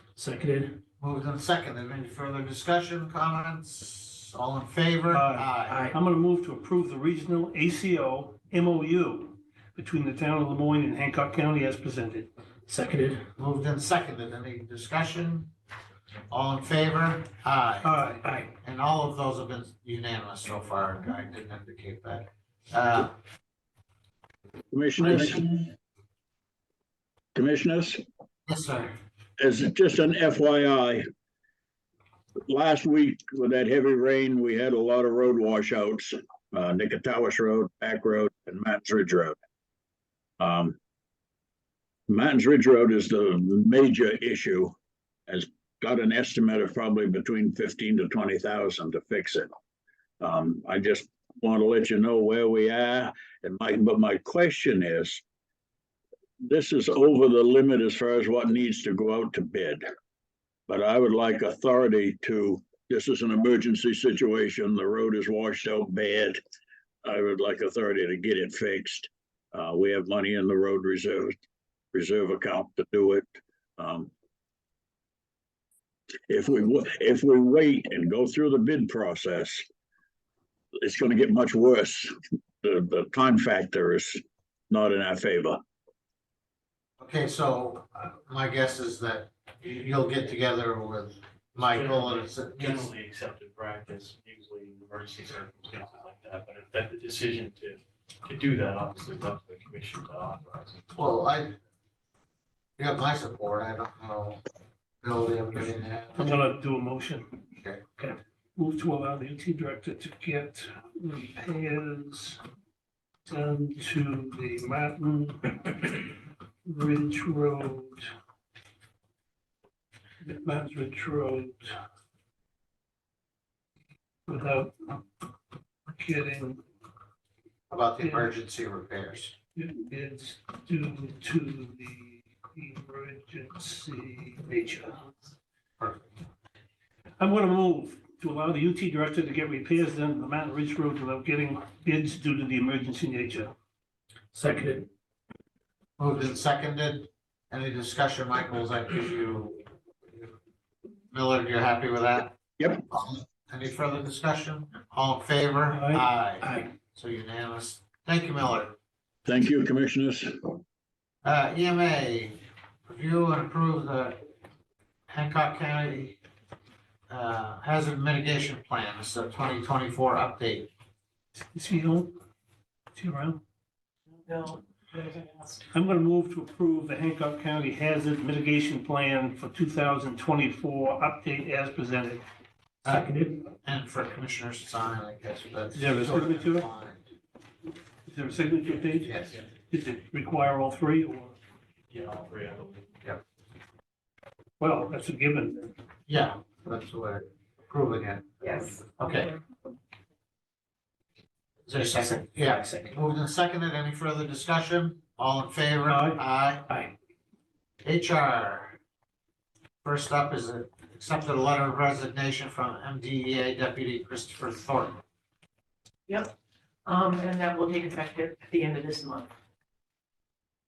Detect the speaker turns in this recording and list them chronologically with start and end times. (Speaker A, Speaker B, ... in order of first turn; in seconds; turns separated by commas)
Speaker A: 0.2-0.8, Speaker B: 1.0-5.9, Speaker C: 5.1-12.3, Speaker A: 5.7-5.9, Speaker A: 12.7-13.2, Speaker B: 13.4-15.5, Speaker B: 16.3-18.0, Speaker C: 17.8-18.2, Speaker A: 18.2-18.5, Speaker B: 18.6-23.1, Speaker D: 24.7-25.6, Speaker B: 25.0-25.6, Speaker D: 27.3-28.0, Speaker B: 28.5-28.9, Speaker D: 29.4-31.0, Speaker D: 32.5-39.4, Speaker D: 40.4-40.8, Speaker D: 42.1-44.7, Speaker D: 45.3-49.5, Speaker D: 50.2-55.2, Speaker D: 56.4-59.9, Speaker D: 60.7-66.4, Speaker D: 67.0-71.3, Speaker D: 71.9-74.1, Speaker D: 76.3-79.6, Speaker D: 80.8-85.6, Speaker B: 87.0-92.9, Speaker E: 91.6-100.8, Speaker B: 100.9-101.5, Speaker B: 102.8-104.4, Speaker B: 105.0-106.4, Speaker C: 106.2-107.3, Speaker B: 107.5-107.8, Speaker C: 108.0-112.4, Speaker C: 113.3-118.1, Speaker C: 120.2-121.8, Speaker C: 124.3-125.0, Speaker C: 125.9-126.6, Speaker B: 127.7-129.3, Speaker C: 128.0-128.3, Speaker C: 129.6-135.0, Speaker B: 135.8-136.2, Speaker C: 137.2-143.5, Speaker C: 144.3-144.8, Speaker B: 146.0-150.3, Speaker B: 151.1-158.7, Speaker D: 152.6-152.8, Speaker C: 155.7-156.6, Speaker D: 159.2-160.6, Speaker B: 161.2-164.2, Speaker B: 165.1-166.2, Speaker B: 167.1-170.7, Speaker C: 171.5-172.1, Speaker C: 172.9-173.4, Speaker F: 174.3-175.6, Speaker C: 175.7-182.2, Speaker B: 182.8-187.0, Speaker A: 182.9-183.3, Speaker C: 185.7-186.7, Speaker C: 188.1-189.2, Speaker B: 189.0-189.4, Speaker C: 189.7-191.3, Speaker E: 191.9-193.0, Speaker C: 194.6-195.7, Speaker B: 196.1-199.3, Speaker B: 201.7-206.7, Speaker A: 202.0-202.9, Speaker A: 205.9-206.9, Speaker B: 207.8-208.8, Speaker B: 209.8-215.0, Speaker F: 216.1-216.3, Speaker F: 216.8-219.3